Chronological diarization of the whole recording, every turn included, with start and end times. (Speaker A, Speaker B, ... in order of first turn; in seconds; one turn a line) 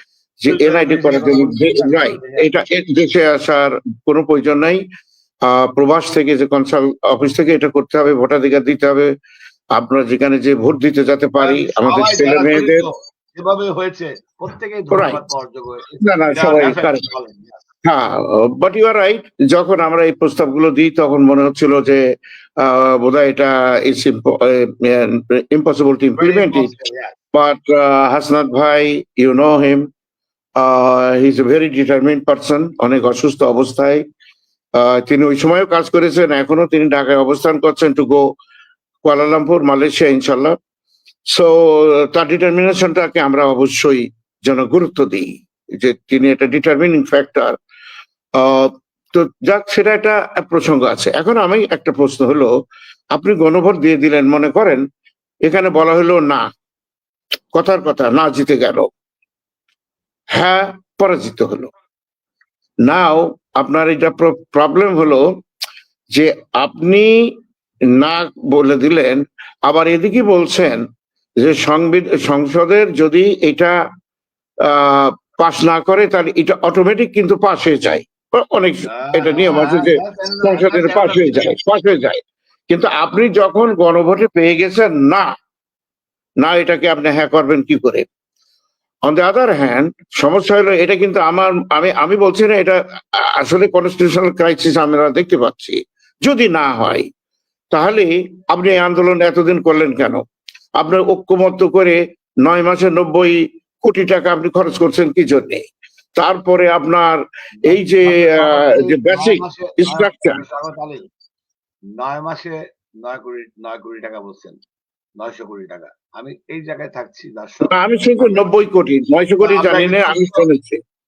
Speaker A: 0.4-4.8
Speaker B: 0.5-2.5
Speaker A: 5.5-9.1
Speaker A: 9.8-12.9
Speaker B: 11.4-17.6
Speaker A: 14.9-15.2
Speaker A: 16.0-17.1
Speaker A: 17.9-22.0
Speaker A: 22.6-26.7
Speaker B: 26.2-27.1
Speaker A: 27.3-29.9
Speaker A: 30.6-34.0
Speaker A: 34.8-38.2
Speaker A: 39.0-40.6
Speaker A: 41.3-45.3
Speaker A: 45.8-47.6
Speaker A: 48.4-52.5
Speaker A: 53.1-54.8
Speaker A: 55.5-56.4
Speaker A: 57.5-58.9
Speaker A: 60.4-61.7
Speaker A: 62.9-65.3
Speaker A: 66.1-67.3
Speaker A: 68.0-70.8
Speaker A: 71.4-73.8
Speaker A: 74.7-85.3
Speaker B: 78.9-81.6
Speaker A: 86.4-88.1
Speaker A: 89.1-97.1
Speaker A: 97.7-100.2
Speaker A: 100.8-105.6
Speaker A: 106.2-110.4
Speaker B: 107.6-111.0
Speaker B: 112.0-114.6
Speaker B: 115.2-118.5
Speaker A: 117.7-120.8
Speaker B: 119.4-120.4